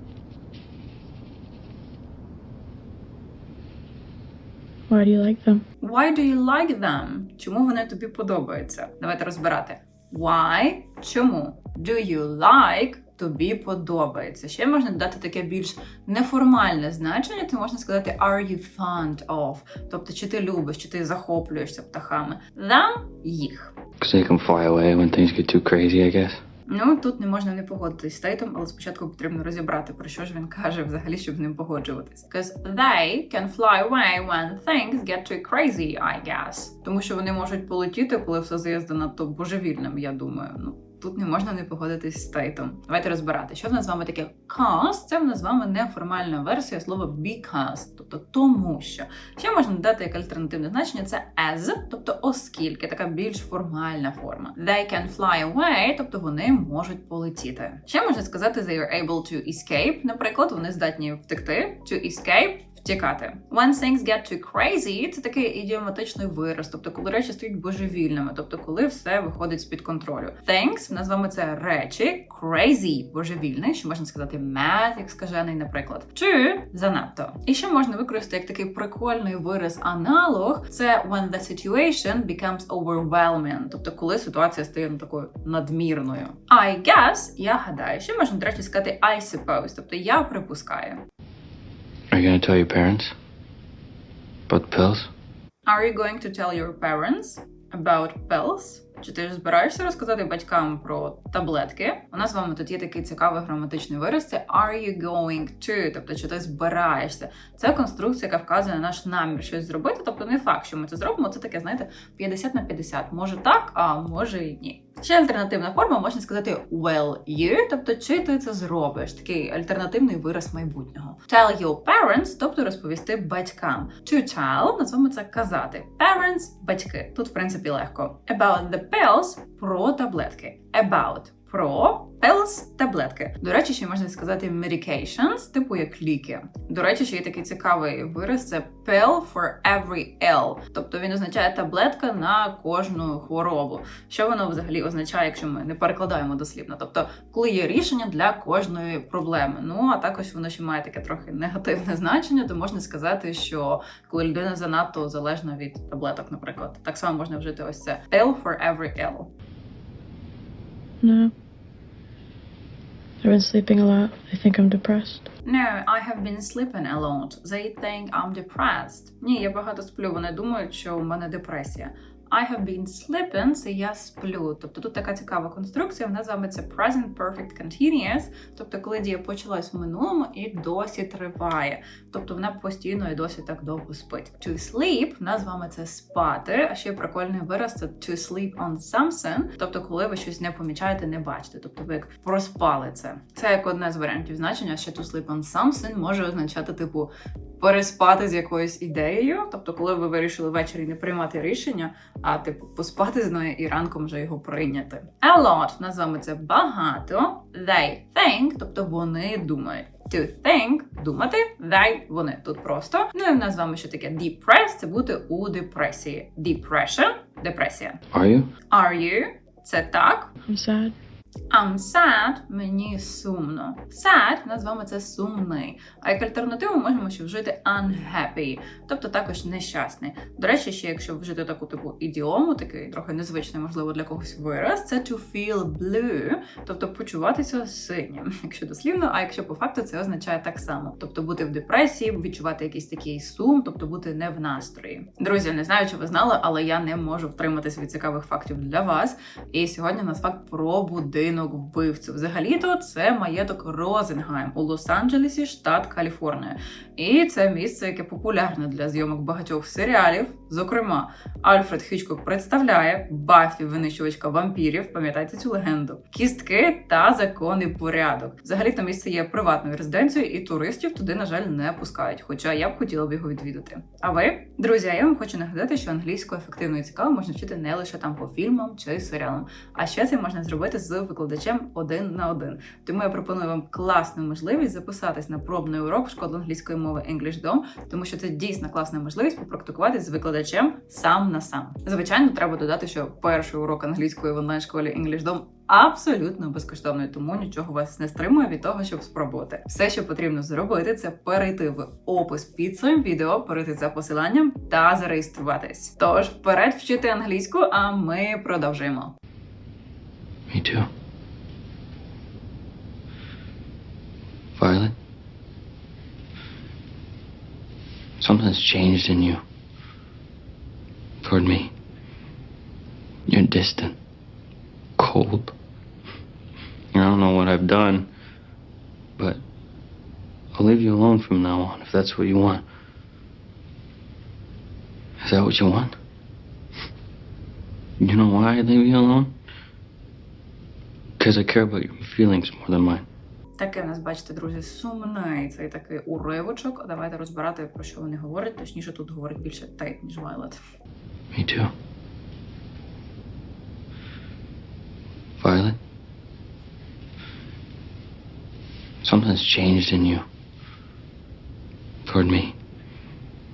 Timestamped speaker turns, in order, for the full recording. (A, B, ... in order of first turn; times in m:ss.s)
0:04.9-0:05.6 A
0:05.8-0:23.7 B
0:24.0-0:26.4 C
0:26.7-1:31.0 B
1:32.1-1:33.1 C
1:34.5-1:35.1 C
1:35.7-2:39.3 B
2:41.0-2:41.3 A
2:43.2-2:45.3 A
2:45.4-3:38.0 B
3:38.1-3:38.5 C
3:38.7-3:40.3 B
3:40.5-3:40.9 A
3:41.5-5:09.2 B
5:10.5-5:10.9 C
5:14.6-5:15.0 C
5:18.2-5:19.4 C
5:21.2-5:21.7 C
5:23.3-5:24.0 C
5:25.0-5:25.6 C
5:26.9-5:28.1 C
5:30.6-5:32.6 C
5:35.2-5:36.0 C
5:38.0-5:39.3 C
5:41.2-5:43.0 C
5:43.6-5:50.6 B
5:51.3-5:51.7 C
5:55.4-5:55.8 C
5:59.0-6:00.2 C
6:02.1-6:02.6 C